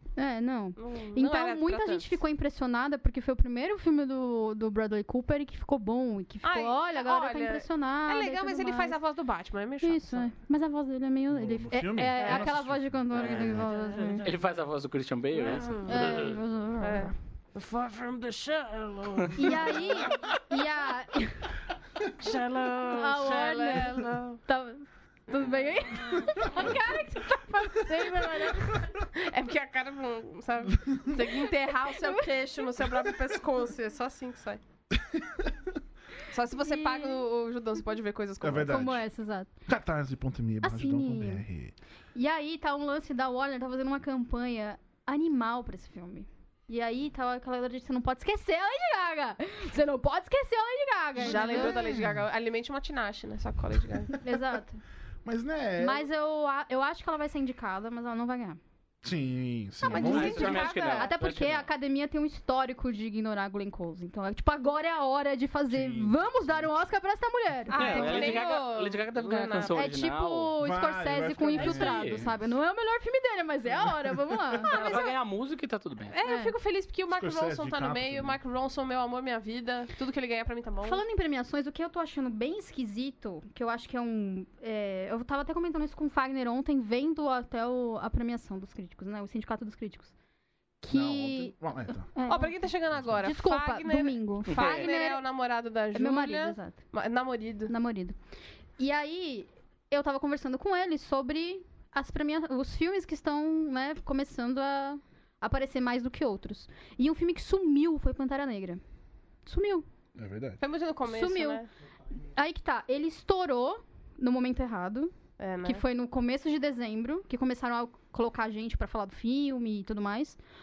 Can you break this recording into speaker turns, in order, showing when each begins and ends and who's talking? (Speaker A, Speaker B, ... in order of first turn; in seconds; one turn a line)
Speaker A: 0.2-9.0
Speaker B: 0.8-2.2
Speaker B: 6.4-10.3
Speaker A: 9.8-14.3
Speaker C: 11.3-13.4
Speaker B: 12.2-12.5
Speaker D: 13.2-13.6
Speaker B: 13.4-14.3
Speaker D: 14.2-16.4
Speaker B: 15.3-16.2
Speaker A: 15.8-17.1
Speaker B: 16.8-20.0
Speaker D: 19.1-20.4
Speaker A: 19.3-21.5
Speaker B: 22.2-24.4
Speaker A: 22.9-28.9
Speaker B: 26.4-26.9
Speaker B: 28.0-34.6
Speaker C: 30.7-31.2
Speaker A: 32.0-32.3
Speaker C: 34.9-35.7
Speaker B: 36.3-38.9
Speaker A: 36.6-37.2
Speaker C: 38.4-39.0
Speaker A: 38.6-39.5
Speaker C: 39.6-41.7
Speaker A: 40.6-41.4
Speaker A: 42.1-51.9
Speaker B: 51.1-54.2
Speaker C: 51.2-52.2
Speaker A: 54.2-54.8
Speaker C: 55.2-56.1
Speaker A: 55.8-58.6
Speaker C: 59.0-60.7
Speaker B: 59.9-61.1
Speaker A: 59.9-68.4
Speaker D: 59.9-61.7
Speaker C: 65.7-66.7
Speaker B: 67.7-69.8
Speaker D: 67.7-70.5
Speaker A: 69.7-74.8
Speaker C: 70.6-72.5
Speaker D: 71.6-72.3
Speaker C: 73.8-74.4
Speaker D: 74.7-76.1
Speaker B: 74.7-75.1
Speaker B: 76.1-81.0
Speaker A: 76.2-76.5
Speaker C: 77.1-78.4
Speaker A: 80.8-90.1
Speaker A: 90.8-92.6
Speaker C: 90.9-92.1
Speaker B: 92.3-97.7
Speaker C: 92.9-93.3
Speaker A: 93.2-95.2
Speaker D: 94.5-94.9
Speaker A: 95.9-96.8
Speaker A: 97.7-98.2
Speaker A: 98.8-108.8
Speaker A: 109.5-109.8
Speaker C: 110.1-110.6
Speaker B: 110.6-111.7
Speaker A: 111.0-111.6
Speaker A: 112.3-115.1
Speaker B: 115.4-115.8
Speaker A: 115.6-120.4